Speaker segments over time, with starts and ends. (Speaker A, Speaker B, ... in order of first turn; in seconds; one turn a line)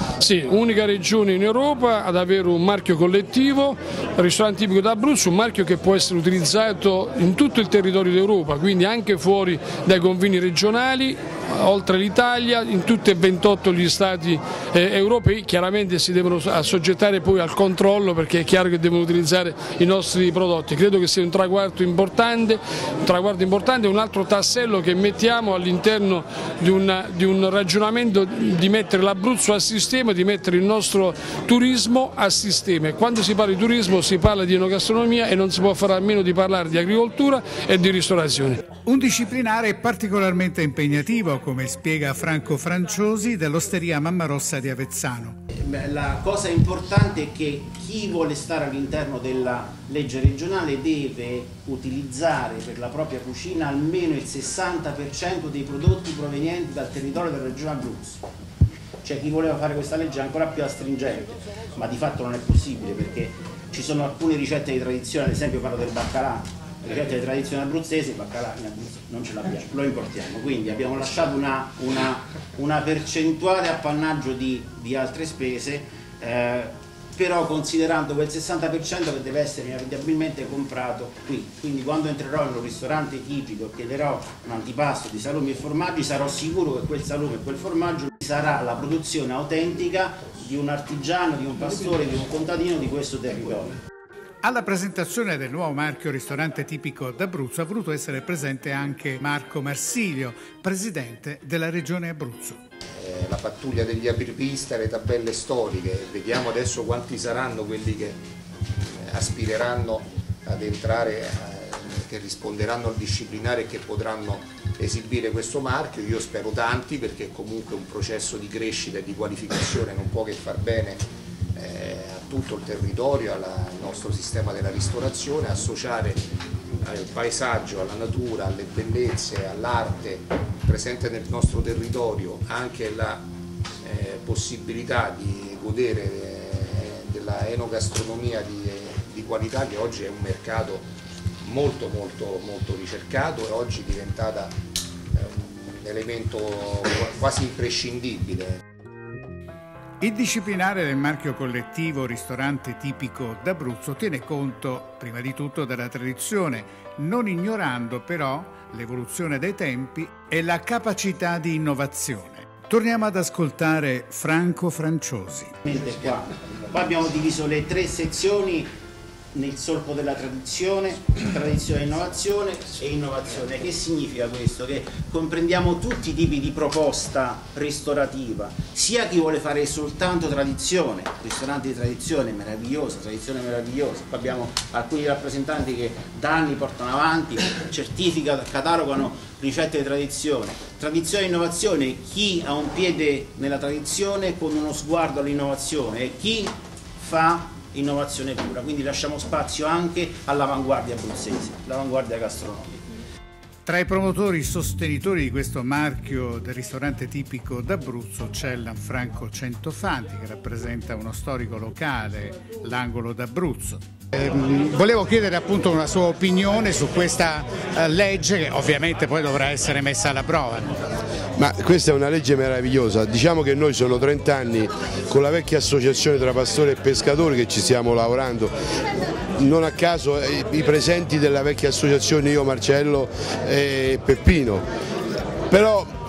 Speaker A: 0.2-38.6
Speaker B: 38.9-45.4
Speaker C: 45.5-58.2
Speaker C: 59.0-93.8
Speaker B: 94.4-102.6
Speaker D: 103.0-108.2
Speaker D: 109.0-121.0
Speaker D: 121.6-126.2
Speaker D: 126.8-133.3
Speaker D: 133.8-140.9
Speaker D: 141.4-144.6
Speaker D: 145.1-148.6
Speaker B: 150.0-165.6
Speaker C: 165.6-168.7
Speaker C: 169.3-202.8
Speaker B: 203.7-220.8
Speaker E: 221.4-228.5
Speaker E: 229.4-234.7
Speaker E: 235.5-235.9